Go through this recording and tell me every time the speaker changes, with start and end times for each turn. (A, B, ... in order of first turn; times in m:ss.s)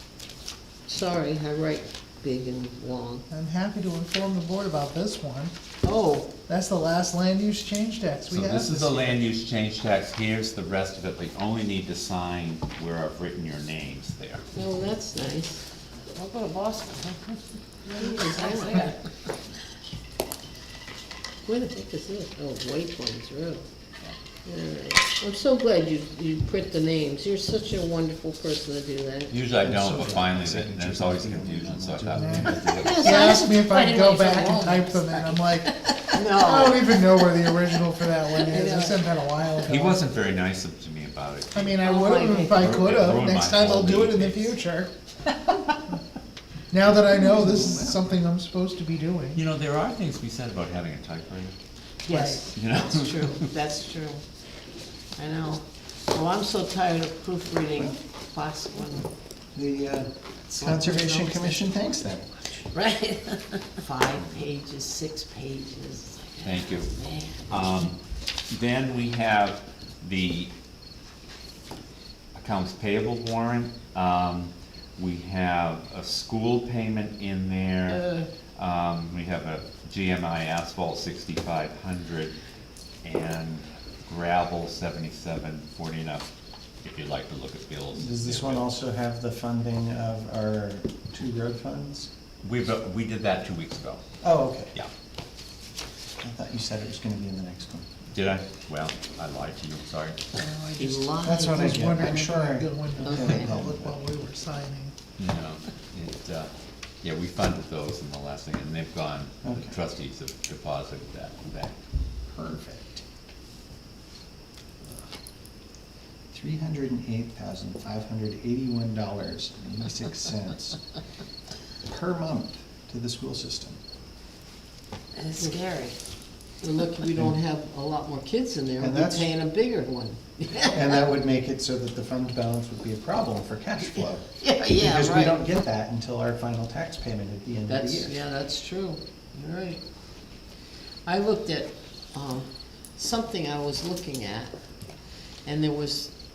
0:00.9-0:03.2 A
0:03.3-0:05.5 B
0:05.8-0:06.3 A
0:06.5-0:09.2 B
0:08.3-0:14.4 C
0:14.5-0:15.7 A
0:16.1-0:17.2 B
0:17.9-0:19.0 A
0:17.9-0:18.9 B
0:21.4-0:23.6 A
0:24.4-0:29.4 A
0:29.3-0:33.4 C
0:29.6-0:32.8 D
0:32.2-0:35.7 B
0:32.8-0:37.6 A
0:36.3-0:40.0 B
0:38.4-0:39.0 A
0:39.6-0:41.8 C
0:41.5-0:44.9 B
0:41.8-0:42.7 A
0:42.5-0:44.6 C
0:46.7-0:49.4 B
0:47.4-0:48.0 D
0:49.3-0:51.5 C
0:52.0-0:54.2 A
0:52.1-0:52.4 B
0:52.5-0:53.4 C
0:55.2-0:59.1 A
0:59.5-1:02.6 D
1:00.5-1:01.6 A
1:02.7-1:07.6 A
1:06.4-1:06.9 C
1:07.5-1:08.0 C
1:08.5-1:10.5 C
1:12.3-1:18.0 C
1:17.9-1:18.3 A
1:18.6-1:22.4 C
1:23.0-1:26.3 C
1:26.8-1:28.7 C
1:27.9-1:32.1 D
1:32.4-1:34.0 C
1:34.2-1:34.7 D
1:36.2-1:37.9 D
1:38.1-1:40.2 C
1:40.4-1:44.9 B
1:40.8-1:42.1 A
1:41.2-1:44.0 D
1:43.0-1:43.5 A
1:45.2-1:46.5 C
1:47.0-1:51.8 C
1:49.4-1:49.7 D
1:52.3-1:53.0 D
1:56.3-2:00.8 D
2:01.8-2:03.8 D
2:05.2-2:06.0 A
2:06.6-2:11.0 A
2:08.8-2:09.3 D
2:10.5-2:18.2 D
2:14.4-2:15.4 A
2:17.7-2:19.8 A
2:21.1-2:24.6 A
2:25.4-2:26.1 A